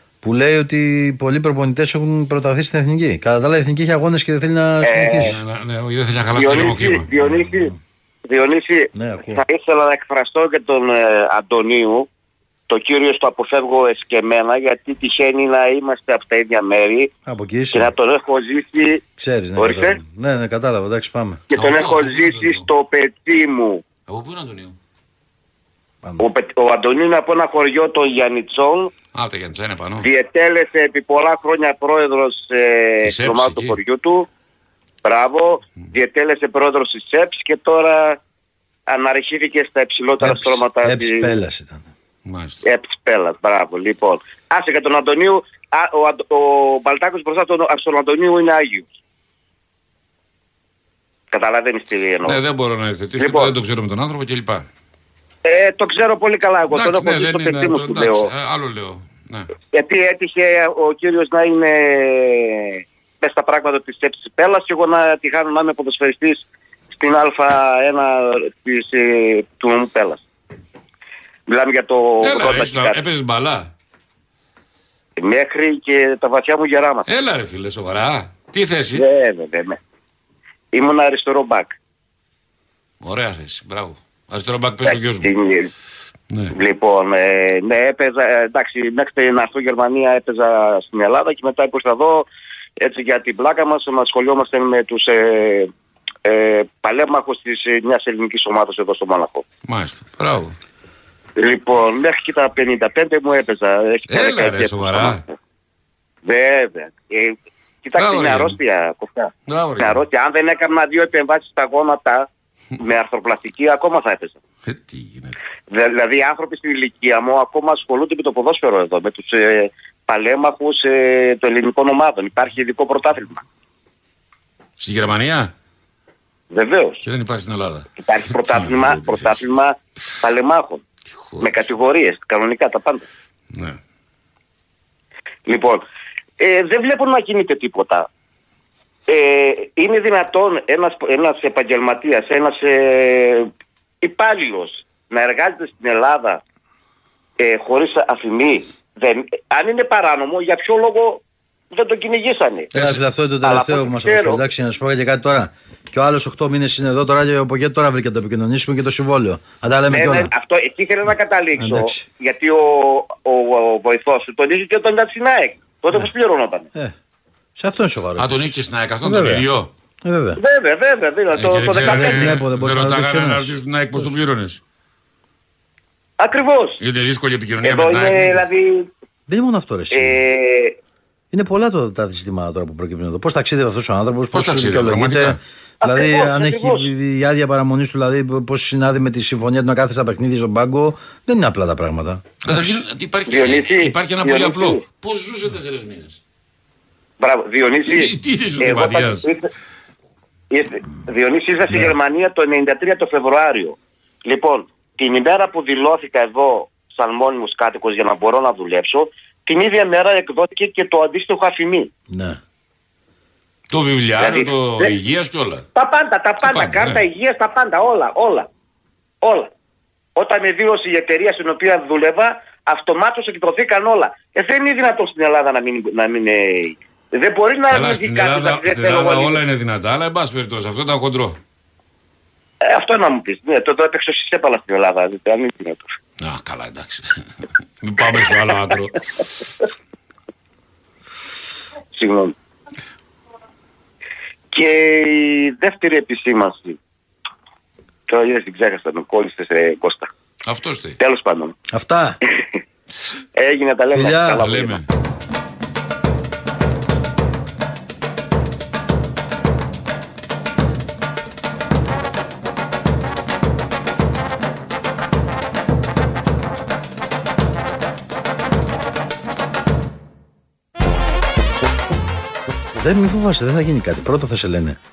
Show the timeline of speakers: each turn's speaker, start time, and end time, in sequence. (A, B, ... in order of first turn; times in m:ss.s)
0:00.2-0:05.4 A
0:04.8-0:05.4 B
0:05.2-0:07.1 C
0:06.4-0:07.7 B
0:07.2-0:07.7 A
0:08.3-0:12.1 B
0:08.9-0:09.4 A
0:12.7-0:17.1 B
0:17.2-0:17.9 A
0:17.7-0:19.0 B
0:19.2-0:21.4 A
0:19.6-0:20.0 B
0:21.5-0:23.8 B
0:21.5-0:22.7 C
0:24.1-0:24.7 C
0:26.2-0:28.9 B
0:29.1-0:30.1 C
0:30.0-0:34.3 B
0:33.0-0:33.8 C
0:35.0-0:38.2 B
0:38.9-0:41.3 B
0:40.2-0:41.9 A
0:42.2-0:42.6 C
0:42.6-0:48.9 B
0:51.3-0:52.4 B
0:52.2-0:54.6 C
0:53.2-0:53.5 B
0:55.4-0:58.3 B
0:56.7-0:59.5 C
0:59.7-1:10.2 B
1:11.5-1:13.0 B
1:12.2-1:13.7 C
1:15.2-1:17.1 B
1:17.1-1:19.0 C
1:18.9-1:19.8 B
1:20.7-1:21.8 B
1:23.0-1:25.3 C
1:24.8-1:25.7 B
1:26.5-1:32.3 B
1:32.8-1:35.7 B
1:36.2-1:39.4 B
1:39.7-1:40.5 C
1:41.4-1:45.4 B
1:44.1-1:45.2 C
1:46.2-1:52.3 B
1:47.9-1:48.6 C
1:49.5-1:50.0 C
1:52.8-1:54.4 B
1:54.6-1:55.4 C
1:55.7-2:03.4 B
2:04.8-2:05.5 C
2:06.5-2:07.0 B
2:07.0-2:09.4 C
2:08.0-2:10.8 B
2:11.2-2:11.5 C
2:11.4-2:13.0 B
2:13.5-2:13.8 C
2:15.4-2:15.8 B
2:16.4-2:18.1 B
2:19.1-2:23.5 B
2:24.0-2:26.4 B
2:27.4-2:32.7 B
2:32.7-2:33.0 C
2:32.7-2:40.3 A
2:33.4-2:34.4 B
2:39.9-2:46.7 B
2:41.6-2:42.0 A
2:47.6-2:48.5 A
2:48.2-2:49.7 C
2:49.0-2:49.5 A
2:50.0-2:50.4 A
2:50.4-2:52.4 B
2:51.3-2:54.6 C
2:51.8-2:54.1 A
2:56.2-2:56.8 B
2:56.8-2:58.4 C
2:57.6-2:58.9 B
2:59.3-3:00.2 A
2:59.9-3:00.8 B
3:01.3-3:12.5 A
3:04.3-3:05.4 C
3:05.8-3:06.9 B
3:12.4-3:16.2 C
3:13.3-3:14.8 B
3:17.2-3:19.5 B
3:17.8-3:19.3 C
3:20.5-3:31.9 B
3:32.1-3:32.4 A
3:33.7-3:35.6 C
3:34.2-3:34.9 B
3:35.7-3:38.5 B
3:36.4-3:37.0 C
3:39.2-3:39.5 B
3:40.2-3:49.4 B
3:47.7-3:51.4 C
3:52.6-3:55.9 B
3:56.2-3:57.2 C
3:57.8-3:59.0 C
4:01.9-4:02.3 B
4:04.5-4:06.8 B
4:08.1-4:10.1 B
4:10.4-4:11.0 C
4:11.0-4:11.6 B
4:11.7-4:12.2 A
4:13.3-4:14.8 B
4:13.9-4:14.4 A
4:14.4-4:14.8 C
4:32.8-4:34.8 A